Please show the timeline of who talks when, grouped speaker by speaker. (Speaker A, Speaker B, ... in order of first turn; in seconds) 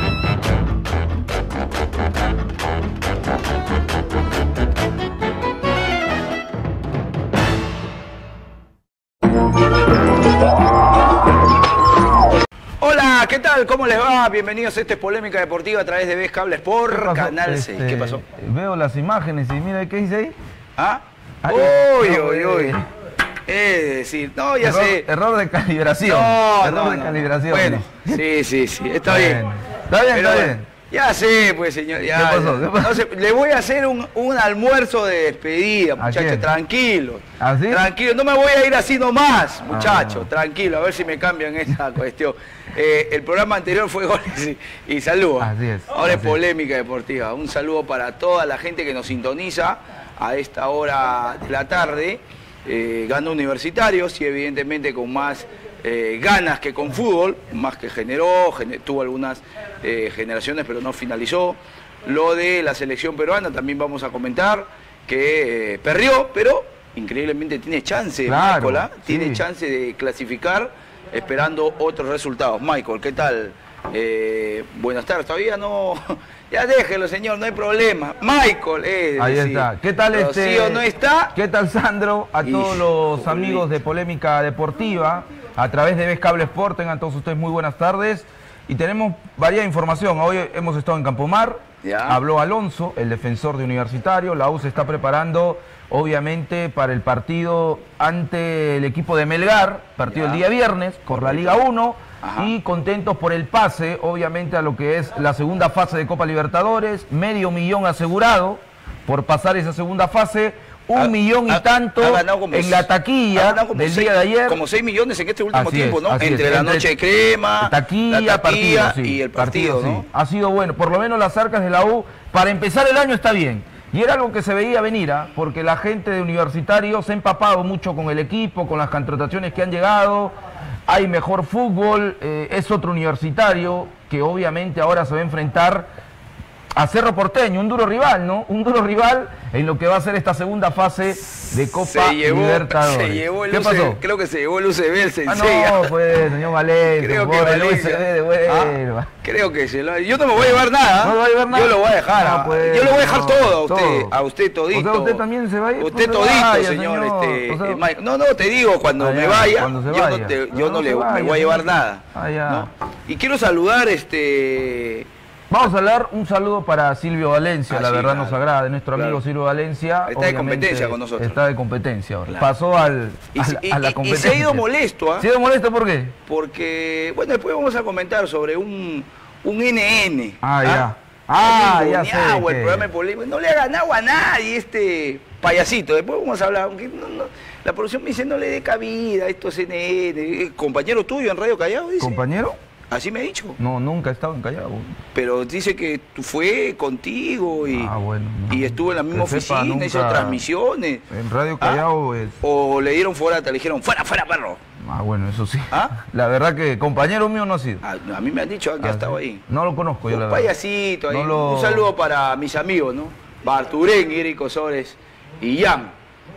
Speaker A: 12.8-18.2, 20.8-22.8, 23.5-25.1, 26.0-29.4, 30.1-81.3, 82.4-83.7, 91.8-92.2, 100.1-100.4, 101.1-101.6, 102.2-102.5, 111.0-120.0, 141.7-145.9, 146.9-155.2, 155.8-165.1, 167.7-168.4, 168.9-169.2, 170.1-171.4, 173.3-175.3, 176.3-180.9, 181.4-192.2, 192.9-193.6, 195.1-197.9, 198.5-201.0, 202.4-204.6, 207.8-209.4, 210.1-215.9
Speaker B: 16.9-20.4, 21.4-22.9, 24.6-28.2, 29.0-30.7, 32.1-33.0, 36.0-36.5, 37.4-37.9, 39.7-40.3, 45.4-46.4, 68.2-69.4, 79.2-114.6, 115.5-116.9, 117.6-130.3, 130.9-135.9, 136.8-144.0, 145.2-149.1, 150.4-154.1, 154.7-157.8, 159.0-162.7, 165.5-174.6, 175.2-176.2, 180.4-182.9, 192.0-192.6, 193.6-195.0, 197.8-200.4, 201.1-202.4, 204.8-207.8, 208.8-210.5, 211.1-211.9